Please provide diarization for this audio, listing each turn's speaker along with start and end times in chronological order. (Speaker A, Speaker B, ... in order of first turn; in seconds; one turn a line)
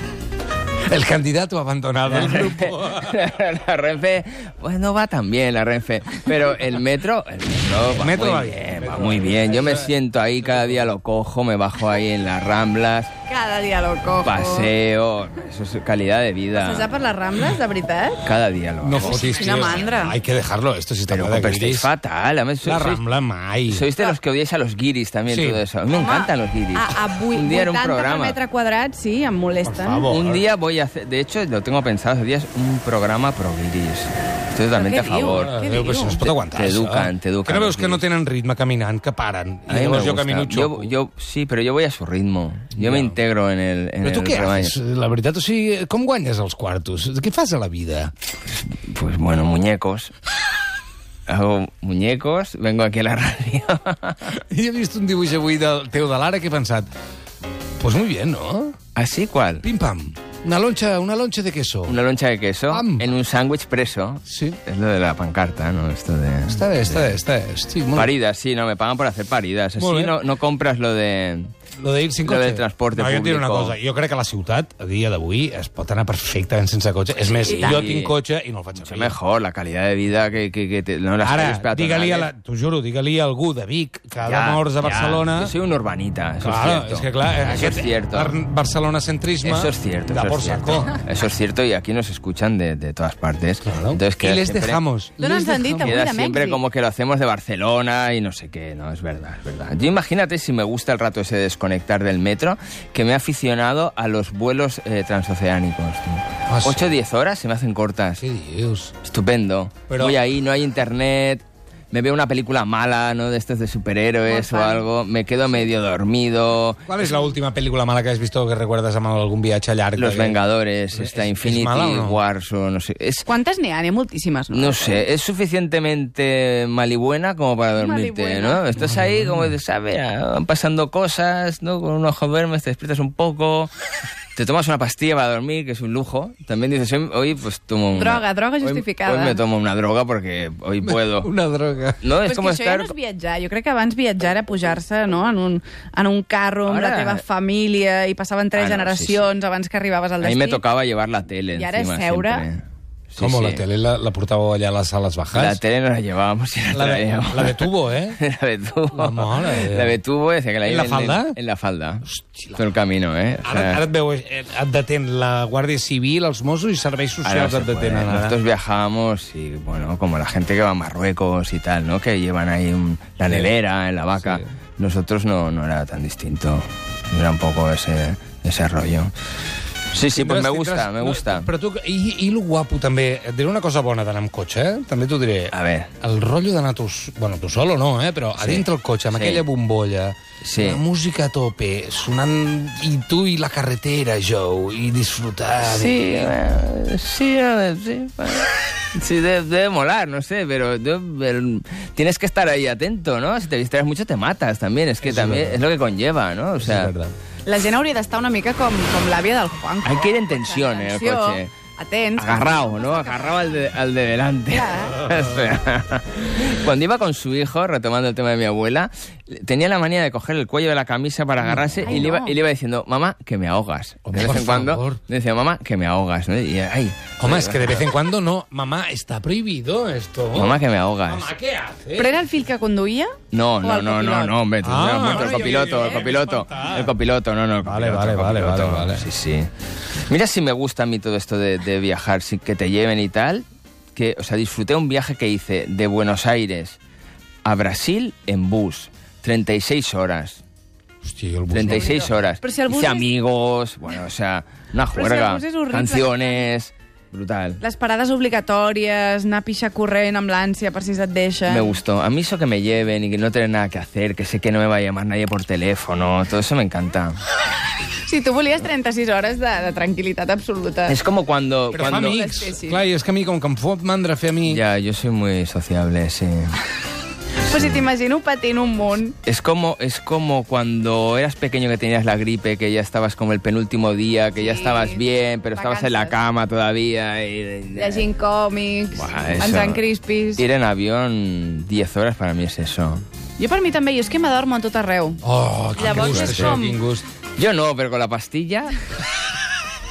Speaker A: 0.9-3.2
Speaker B: 2.1-13.1
Speaker A: 7.8-10.9
Speaker C: 13.3-14.7
Speaker B: 14.2-16.9
Speaker C: 16.6-18.2
Speaker B: 18.2-19.8
Speaker A: 18.8-21.9
Speaker C: 19.0-20.2
Speaker B: 21.1-23.0
Speaker A: 22.6-23.9
Speaker B: 23.7-28.4
Speaker A: 25.3-25.6
Speaker C: 25.9-30.1
Speaker A: 29.6-30.4
Speaker B: 30.1-35.5
Speaker C: 34.7-36.2
Speaker A: 35.3-40.9
Speaker B: 36.1-38.0
Speaker B: 39.7-44.8
Speaker A: 42.8-43.2
Speaker A: 44.0-48.1
Speaker B: 48.6-50.1
Speaker B: 51.3-54.3
Speaker A: 54.5-56.9
Speaker A: 57.8-58.8
Speaker B: 59.0-59.6
Speaker A: 59.6-62.0
Speaker B: 61.9-67.2
Speaker A: 62.7-63.1
Speaker A: 64.3-64.6
Speaker A: 66.5-68.1
Speaker B: 67.9-71.5
Speaker A: 69.8-70.2
Speaker A: 71.8-79.2
Speaker B: 72.2-73.8
Speaker B: 77.2-78.2
Speaker B: 78.8-82.3
Speaker A: 81.2-85.5
Speaker B: 84.2-88.4
Speaker A: 86.4-91.0
Speaker B: 89.4-94.8
Speaker A: 93.7-96.0
Speaker C: 95.2-96.6
Speaker B: 95.8-108.2
Speaker A: 106.5-107.0
Speaker A: 108.2-108.9
Speaker B: 109.0-117.1
Speaker A: 109.9-110.2
Speaker C: 114.3-114.9
Speaker A: 116.9-120.4
Speaker B: 120.0-123.2
Speaker A: 120.9-122.2
Speaker C: 123.3-125.0
Speaker B: 124.5-133.7
Speaker C: 127.8-128.6
Speaker A: 128.8-129.5
Speaker B: 134.3-141.3
Speaker C: 137.9-139.4
Speaker A: 140.8-142.0
Speaker B: 142.0-142.9
Speaker C: 142.2-150.6
Speaker B: 146.7-147.2
Speaker B: 148.6-149.3
Speaker B: 150.2-153.6
Speaker C: 151.5-152.5
Speaker A: 153.2-155.6
Speaker B: 155.3-163.8
Speaker A: 156.7-158.2
Speaker A: 158.9-160.0
Speaker A: 160.7-161.4
Speaker A: 162.1-162.6
Speaker A: 163.4-168.4
Speaker B: 167.2-179.1
Speaker A: 174.2-174.5
Speaker B: 179.9-181.5
Speaker A: 180.0-196.3
Speaker B: 185.5-185.9
Speaker B: 188.4-189.4
Speaker B: 190.4-190.8
Speaker B: 195.6-206.9
Speaker A: 205.0-205.6
Speaker A: 206.6-207.1
Speaker C: 207.4-213.3
Speaker B: 209.8-211.5
Speaker B: 212.2-227.9
Speaker C: 214.5-215.0
Speaker A: 221.4-222.1
Speaker C: 221.8-222.4
Speaker A: 224.1-225.0
Speaker A: 227.2-232.2
Speaker B: 230.3-231.3
Speaker C: 231.9-234.4
Speaker B: 233.3-239.5
Speaker A: 234.6-236.9
Speaker C: 235.0-235.6
Speaker A: 237.6-239.1
Speaker B: 240.1-246.8
Speaker B: 247.4-250.4
Speaker A: 251.0-252.2
Speaker B: 251.5-257.6
Speaker C: 251.7-253.1
Speaker C: 254.9-256.4
Speaker C: 257.6-261.8
Speaker B: 261.5-267.2
Speaker C: 268.0-271.0
Speaker B: 270.9-272.2
Speaker A: 271.7-274.6
Speaker C: 271.7-272.8
Speaker B: 274.4-276.5
Speaker B: 277.5-277.9
Speaker C: 277.5-279.1
Speaker B: 279.2-288.1
Speaker C: 284.4-286.2
Speaker C: 287.8-290.4
Speaker B: 288.9-289.8
Speaker B: 290.4-293.0
Speaker C: 293.4-295.2
Speaker A: 295.2-297.1
Speaker C: 295.8-296.8
Speaker B: 295.8-296.7
Speaker B: 297.4-298.8